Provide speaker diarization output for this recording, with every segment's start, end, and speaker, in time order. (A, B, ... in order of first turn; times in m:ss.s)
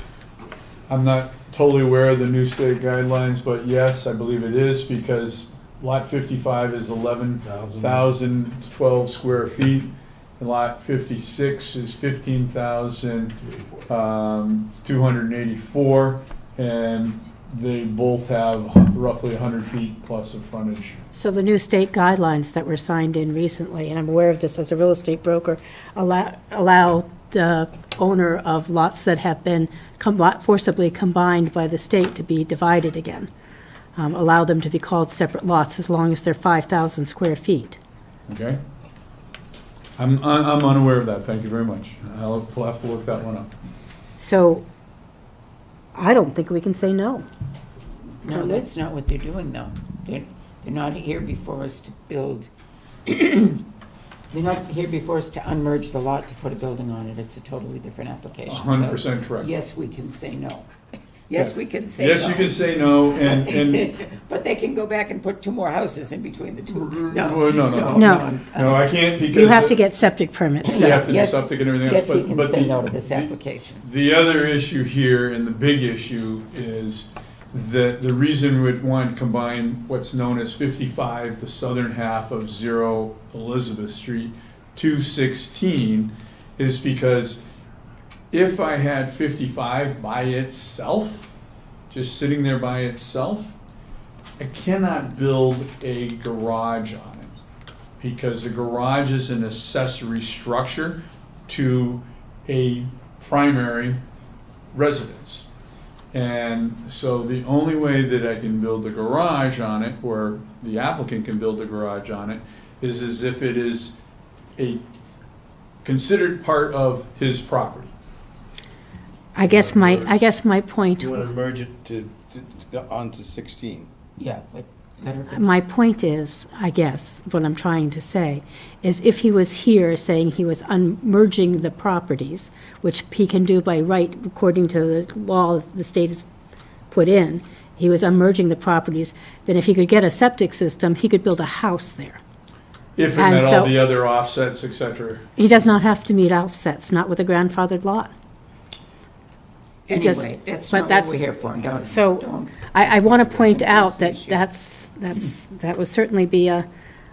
0:00.9-0:13.3 A
0:07.5-0:08.0 B
0:13.9-0:21.0 A
0:21.1-0:33.3 C
0:34.0-0:37.8 C
0:38.3-0:38.6 A
0:40.0-0:43.5 A
0:44.2-0:44.6 C
0:45.9-0:47.2 C
0:48.2-0:52.5 D
0:48.3-0:48.7 C
0:53.0-0:53.6 D
0:54.3-1:08.9 D
0:58.5-0:59.5 A
1:01.3-1:03.9 A
1:06.8-1:09.8 A
1:07.9-1:08.2 C
1:09.3-1:11.1 C
1:10.6-1:13.8 D
1:10.7-1:27.4 A
1:28.3-1:31.3 A
1:31.9-1:33.6 A
1:34.4-1:37.4 A
1:38.0-1:44.0 A
1:44.7-1:45.5 A
1:46.1-1:53.9 A
1:54.6-1:54.8 A
1:55.8-1:57.9 A
1:59.3-2:01.2 C
1:59.4-2:00.2 B
2:01.0-2:03.9 B
2:04.2-2:05.6 D
2:05.3-2:16.3 C
2:16.9-2:22.2 C
2:23.0-2:25.3 A
2:23.1-2:23.8 C
2:25.4-2:28.1 C
2:29.9-2:36.6 C
2:29.9-2:34.4 D